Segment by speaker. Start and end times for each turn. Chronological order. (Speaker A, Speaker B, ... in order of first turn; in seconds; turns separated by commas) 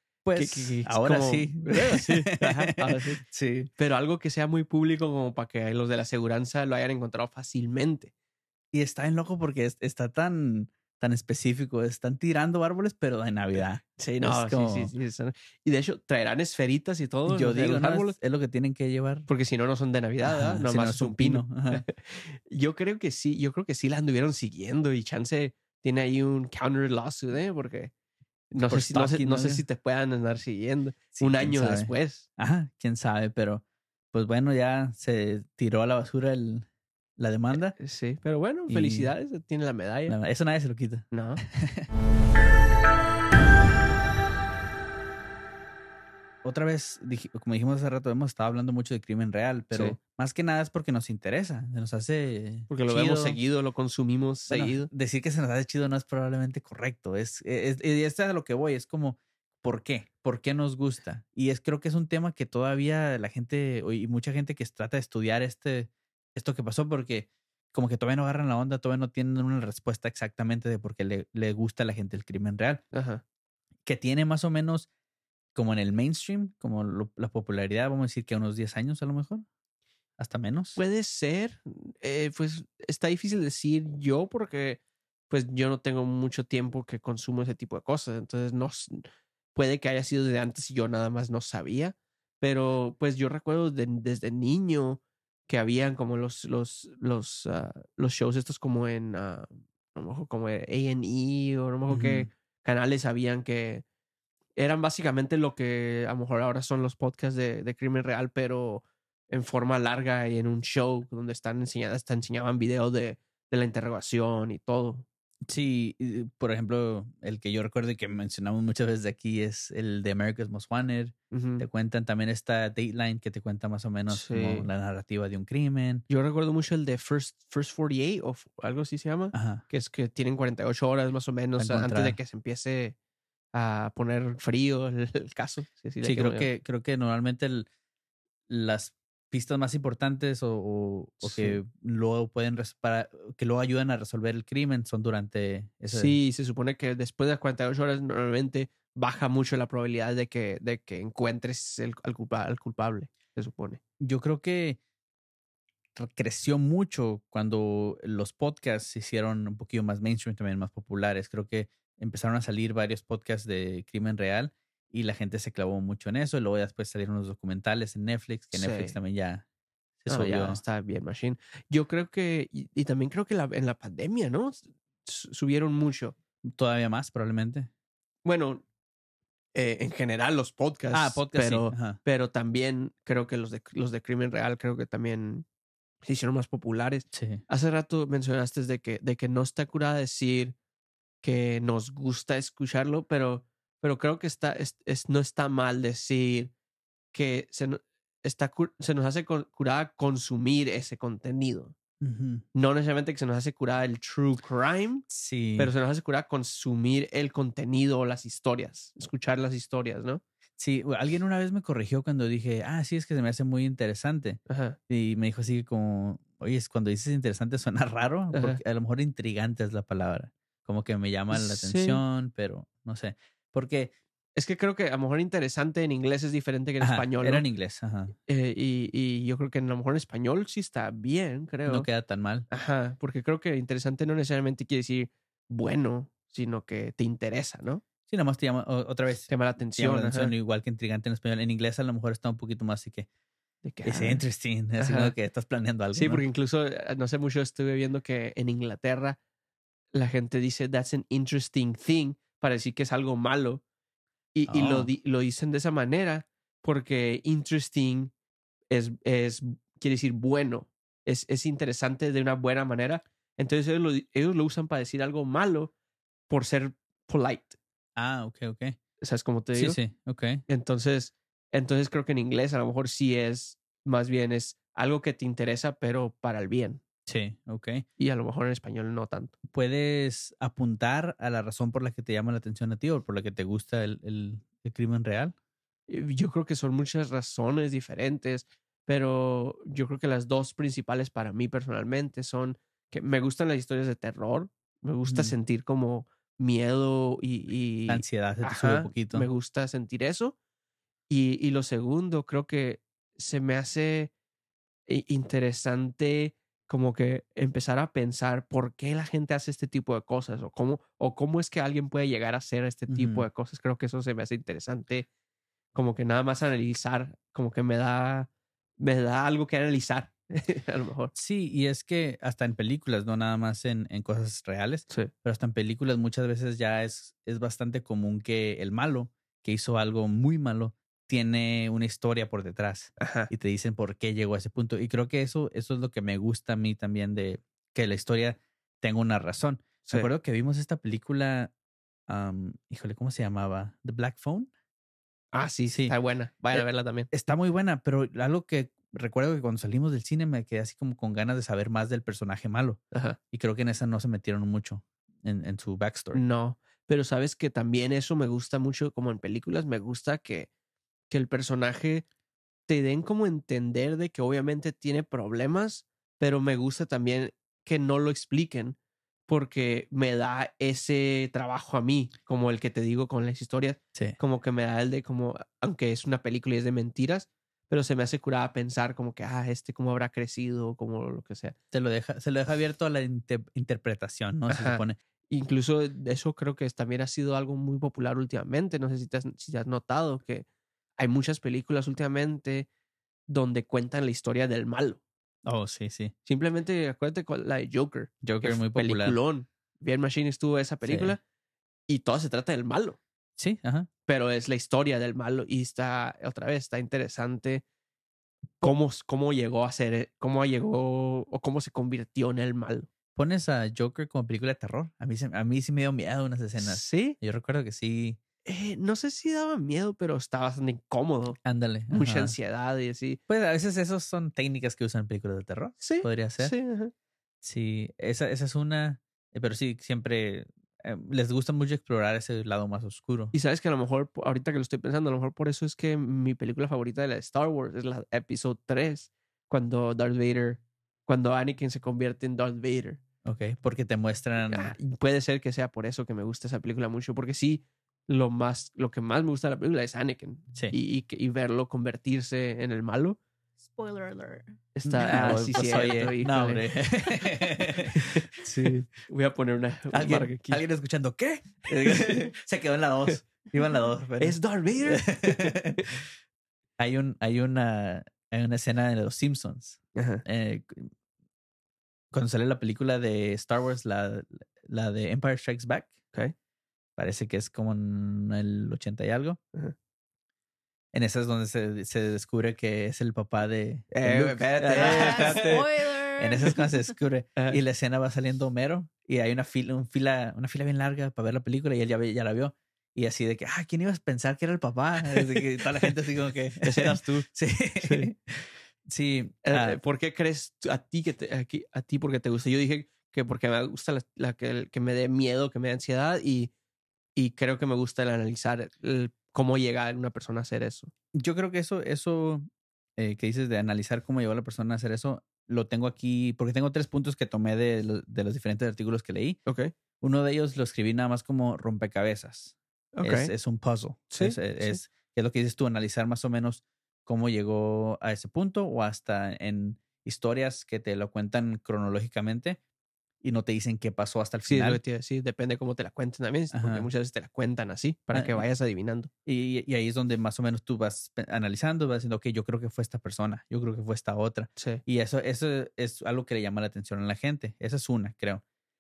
Speaker A: 0.2-3.7, Speaker B: 0.3-3.2, Speaker B: 3.8-8.1, Speaker A: 8.7-14.9, Speaker B: 14.0-18.1, Speaker A: 17.3-19.3, Speaker B: 19.3-27.9, Speaker A: 20.2-21.9, Speaker B: 28.5-32.3, Speaker A: 28.6-29.6, Speaker A: 31.2-37.8, Speaker B: 37.8-40.1, Speaker A: 38.7-39.1, Speaker A: 40.1-41.9, Speaker B: 41.1-41.4, Speaker A: 46.4-53.4, Speaker B: 49.7-50.0, Speaker B: 52.7-54.9, Speaker A: 54.5-72.8, Speaker B: 72.9-73.2, Speaker A: 73.9-74.9, Speaker A: 75.5-79.5, Speaker A: 80.2-80.8, Speaker B: 80.8-89.0, Speaker B: 89.5-103.8, Speaker A: 101.9-102.3, Speaker B: 104.6-115.1, Speaker A: 115.5-126.0, Speaker B: 121.3-121.6, Speaker B: 124.1-124.7, Speaker B: 126.1-132.9, Speaker A: 129.3-129.6, Speaker A: 131.6-132.2, Speaker B: 133.5-136.5, Speaker A: 136.0-137.7, Speaker A: 138.5-146.2, Speaker B: 141.2-141.6, Speaker B: 145.9-153.8, Speaker A: 154.0-154.8, Speaker A: 156.0-169.4, Speaker B: 168.5-169.0, Speaker A: 170.0-170.6, Speaker B: 170.1-176.1, Speaker A: 176.4-177.7, Speaker B: 178.2-178.6, Speaker B: 179.5-185.5, Speaker A: 180.9-182.0, Speaker B: 186.0-190.6, Speaker A: 187.1-187.4, Speaker B: 191.2-196.5, Speaker B: 197.1-201.7, Speaker A: 202.0-202.4, Speaker B: 202.5-205.1, Speaker A: 205.1-205.7, Speaker B: 205.6-210.2, Speaker A: 210.6-223.9, Speaker B: 214.5-214.8, Speaker B: 218.3-218.6, Speaker B: 221.3-222.0, Speaker B: 224.4-227.5, Speaker A: 226.8-228.1, Speaker B: 228.3-231.9, Speaker A: 231.7-232.5, Speaker B: 232.5-237.8, Speaker A: 238.1-243.1, Speaker B: 239.3-240.3, Speaker B: 243.6-244.2, Speaker A: 243.8-246.2, Speaker B: 244.8-245.1, Speaker B: 245.9-249.2, Speaker B: 249.9-253.6, Speaker B: 254.3-258.1, Speaker A: 254.5-254.9, Speaker B: 258.7-265.7, Speaker B: 266.3-267.6, Speaker A: 268.0-268.8, Speaker B: 269.0-269.8, Speaker A: 269.5-270.4, Speaker B: 270.5-276.8, Speaker A: 277.1-277.9, Speaker B: 278.0-279.3, Speaker A: 279.5-285.4, Speaker B: 285.9-300.4, Speaker A: 295.1-295.4, Speaker A: 297.9-299.3, Speaker B: 301.1-304.1, Speaker B: 304.9-315.1, Speaker A: 312.9-313.3, Speaker B: 315.7-321.1, Speaker A: 321.1-341.5, Speaker B: 333.0-333.3, Speaker A: 342.1-344.5, Speaker B: 345.3-347.1, Speaker A: 346.5-352.8, Speaker B: 352.9-353.2, Speaker A: 353.3-356.2, Speaker B: 356.1-360.5, Speaker B: 361.1-362.1, Speaker B: 362.7-381.6, Speaker A: 381.7-385.0, Speaker B: 384.5-390.5, Speaker B: 391.0-392.7, Speaker B: 393.3-395.0, Speaker A: 395.4-396.1, Speaker B: 396.3-401.2, Speaker A: 398.2-399.2, Speaker A: 400.8-401.2, Speaker B: 401.9-403.0, Speaker A: 403.4-403.9, Speaker B: 404.1-407.6, Speaker B: 408.6-412.9, Speaker A: 413.1-418.2, Speaker B: 416.6-417.2, Speaker B: 418.4-421.4, Speaker A: 421.4-422.4, Speaker B: 421.9-423.2, Speaker A: 423.3-426.5, Speaker B: 425.8-426.9, Speaker A: 427.4-433.3, Speaker B: 433.3-443.0, Speaker A: 443.2-444.8, Speaker B: 444.5-453.2, Speaker C: 453.6-454.6, Speaker B: 454.8-456.6, Speaker A: 454.9-458.8, Speaker B: 457.9-460.6, Speaker A: 459.9-465.9, Speaker B: 461.7-462.3, Speaker B: 464.2-465.9, Speaker A: 466.8-470.9, Speaker B: 469.9-470.2, Speaker A: 472.1-475.9, Speaker A: 477.0-479.4, Speaker A: 480.9-485.6, Speaker B: 483.9-485.7, Speaker C: 484.7-486.8, Speaker A: 486.2-499.8, Speaker B: 495.1-495.9, Speaker B: 496.6-497.3, Speaker B: 497.8-498.1, Speaker B: 499.4-506.5, Speaker B: 507.1-510.9, Speaker A: 511.1-512.5, Speaker A: 513.0-519.4, Speaker B: 519.5-519.7, Speaker A: 520.0-532.6, Speaker B: 523.0-523.3, Speaker B: 524.1-524.8, Speaker A: 533.2-534.8, Speaker B: 534.5-539.1, Speaker A: 536.5-536.9, Speaker A: 538.1-538.4, Speaker A: 539.3-548.4, Speaker B: 544.6-544.8